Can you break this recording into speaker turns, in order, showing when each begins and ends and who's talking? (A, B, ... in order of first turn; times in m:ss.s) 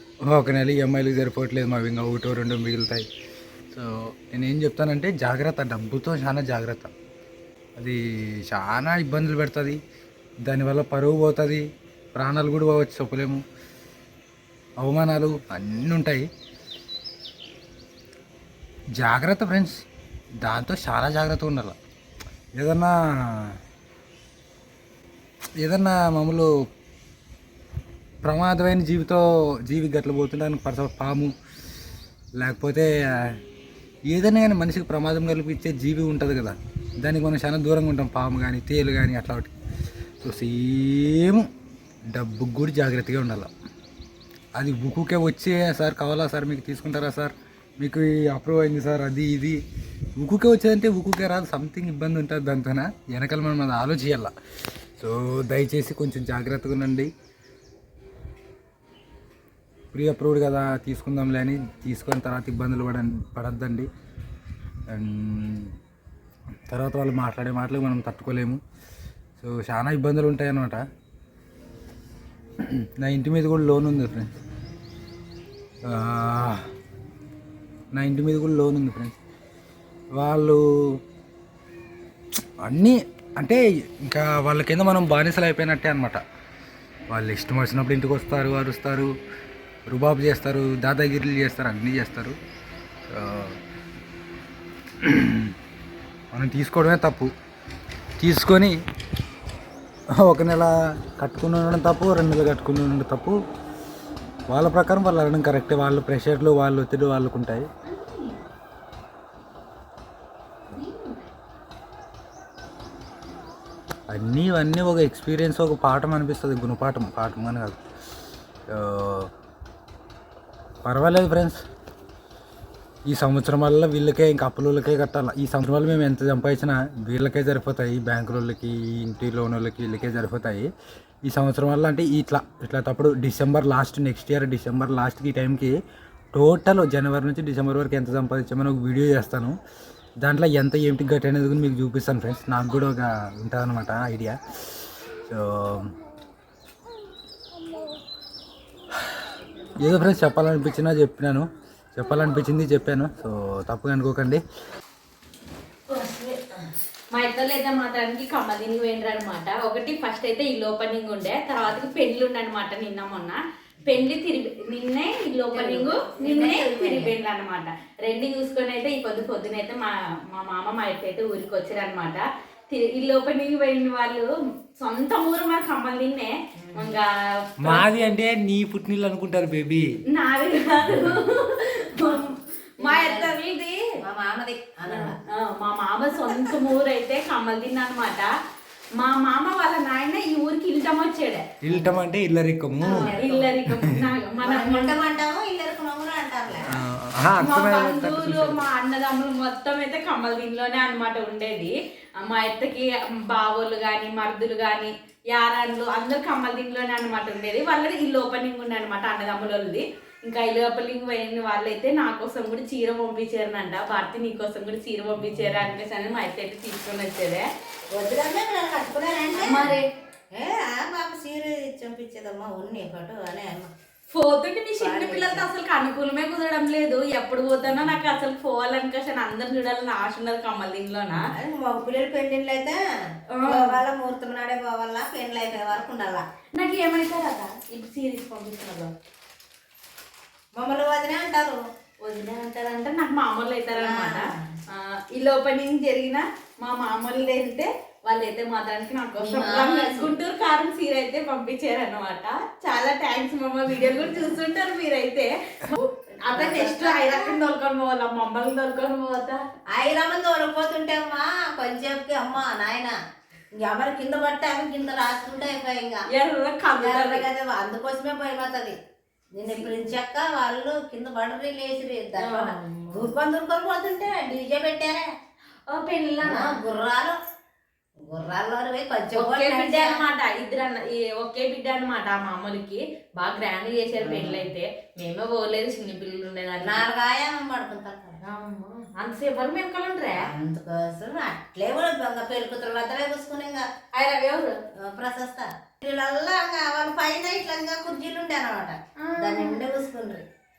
0:00.2-0:03.1 A
0:03.7-0:06.9 A
0:07.8-0:09.8 A
0:10.4-0:13.4 A
0:14.8-0:16.3 A
0:19.0-0:19.8 A
0:20.4-0:21.8 A
0:22.5-0:23.6 A
0:25.6-0:26.5 A
0:28.2-0:31.3 A
0:32.4-0:33.4 A
0:34.1-0:39.5 A
0:40.2-0:41.5 A
0:42.1-0:43.5 A
0:44.6-0:49.6 A
0:50.2-0:54.3 A
0:55.0-0:57.1 A
0:59.9-1:03.9 A
1:04.9-1:05.7 A
1:06.7-1:08.6 A
1:09.4-1:10.8 A
1:12.6-1:14.3 A
1:15.8-1:16.6 A
1:17.9-1:19.1 A
1:20.2-1:20.6 A
1:22.6-1:26.2 A
1:27.1-1:29.1 A
1:29.9-1:32.4 A
1:33.1-1:33.6 A
1:35.0-1:35.5 A
1:36.3-1:37.3 A
1:38.2-1:38.8 A
1:40.2-1:43.4 A
1:44.5-1:47.7 A
1:47.8-1:48.5 B
1:50.7-1:51.3 B
1:54.1-1:57.8 A
1:58.7-1:59.3 A
2:00.8-2:01.6 A
2:03.0-2:10.7 A
2:11.2-2:15.8 A
2:16.3-2:19.6 A
2:20.2-2:24.4 A
2:25.3-2:25.9 A
2:29.8-2:34.4 A
2:35.9-2:36.4 C
2:37.1-2:57.8 B
2:45.5-2:47.1 C
2:57.6-2:59.9 A
3:00.1-3:03.8 B
3:00.9-3:01.2 A
3:02.8-3:03.3 C
3:04.0-3:05.2 C
3:04.9-3:08.3 B
3:06.2-3:06.5 C
3:09.0-3:11.4 B
3:11.6-3:13.1 A
3:12.8-3:13.5 C
3:12.8-3:15.0 B
3:13.7-3:14.1 A
3:14.4-3:16.8 C
3:16.7-3:18.7 A
3:17.4-3:37.4 B
3:35.3-3:35.6 A
3:37.9-3:39.8 C
3:39.4-3:39.8 B
3:40.3-3:43.7 C
3:44.1-3:51.3 B
3:44.8-3:45.5 C
3:51.1-3:52.8 C
3:53.3-3:53.8 B
3:53.4-3:56.2 C
3:56.5-3:58.9 B
4:00.6-4:01.6 C
4:02.0-4:19.4 B
4:03.7-4:04.4 C
4:09.2-4:10.1 C
4:16.3-4:17.3 C
4:19.7-4:23.0 C
4:23.5-4:26.0 C
4:26.1-4:27.3 B
4:26.7-4:28.8 C
4:29.3-4:35.1 C
4:32.2-4:33.1 B
4:35.7-4:36.6 B
4:36.2-4:37.2 C
4:38.0-4:40.0 C
4:39.1-4:46.8 B
4:44.0-4:44.5 C
4:46.6-4:48.2 C
4:48.2-4:50.3 B
4:50.2-4:53.7 C
4:53.9-4:54.6 B
4:54.7-5:00.2 C
4:59.0-4:59.6 B